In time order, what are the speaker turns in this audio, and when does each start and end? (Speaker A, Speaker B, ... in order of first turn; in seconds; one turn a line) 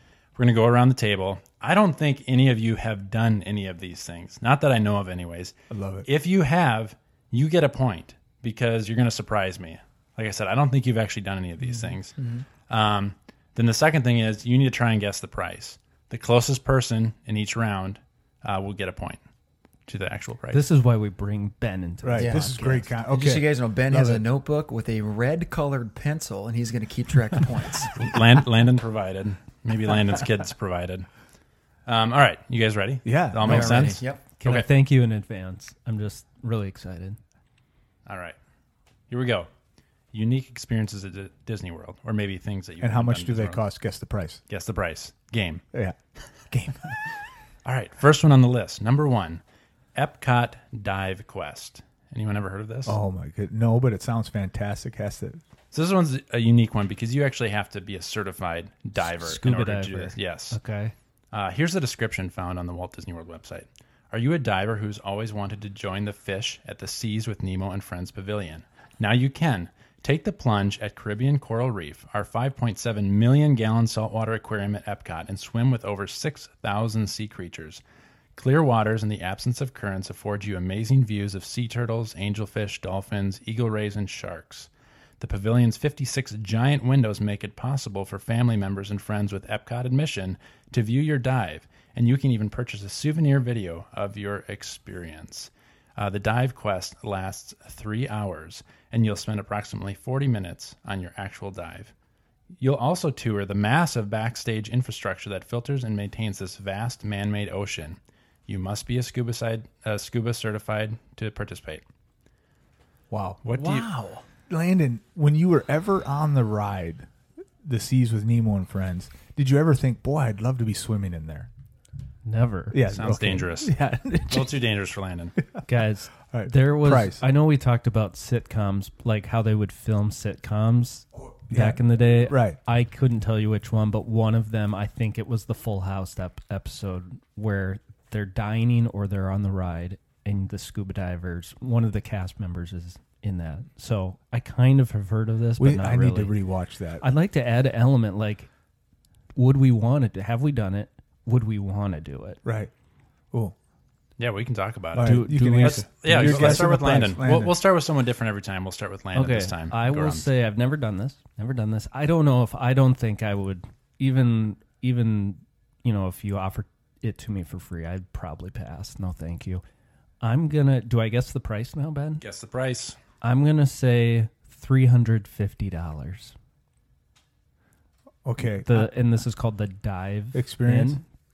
Speaker A: 0.3-5.5
Speaker B: 5.7-6.1
Speaker A: 6.0-19.2
Speaker C: 12.2-12.4
Speaker A: 19.9-20.6
Speaker D: 20.5-22.9
Speaker B: 22.0-24.2
Speaker C: 22.2-22.5
Speaker C: 23.0-27.9
Speaker A: 27.9-31.1
Speaker A: 31.9-34.7
Speaker B: 33.0-33.9
Speaker C: 33.4-34.2
Speaker D: 34.4-37.2
Speaker A: 38.0-38.4
Speaker A: 39.1-39.5
Speaker A: 40.1-43.6
Speaker B: 42.8-44.4
Speaker A: 44.5-45.6
Speaker B: 46.5-46.9
Speaker A: 47.6-49.4
Speaker A: 49.9-53.0
Speaker B: 52.9-55.4
Speaker A: 55.7-60.6
Speaker D: 59.0-60.9
Speaker A: 61.3-77.8
Speaker A: 78.3-84.7
Speaker A: 85.2-101.9
Speaker A: 102.6-111.8
Speaker B: 113.1-113.4
Speaker A: 113.4-113.9
Speaker C: 113.5-114.2
Speaker B: 114.5-117.1
Speaker B: 117.6-121.5
Speaker D: 122.2-122.8
Speaker B: 122.7-124.6
Speaker A: 122.9-125.4
Speaker D: 125.7-146.3
Speaker B: 126.3-127.2
Speaker B: 131.5-132.6
Speaker B: 145.6-147.0
Speaker D: 147.0-148.5
Speaker D: 149.3-152.4
Speaker B: 152.4-152.7
Speaker A: 154.2-160.3
Speaker B: 154.9-157.6
Speaker D: 155.0-156.9
Speaker D: 159.1-169.6
Speaker D: 170.2-172.2
Speaker A: 172.2-173.0
Speaker D: 173.2-176.3
Speaker B: 178.2-178.9
Speaker D: 178.6-181.0
Speaker B: 180.3-181.0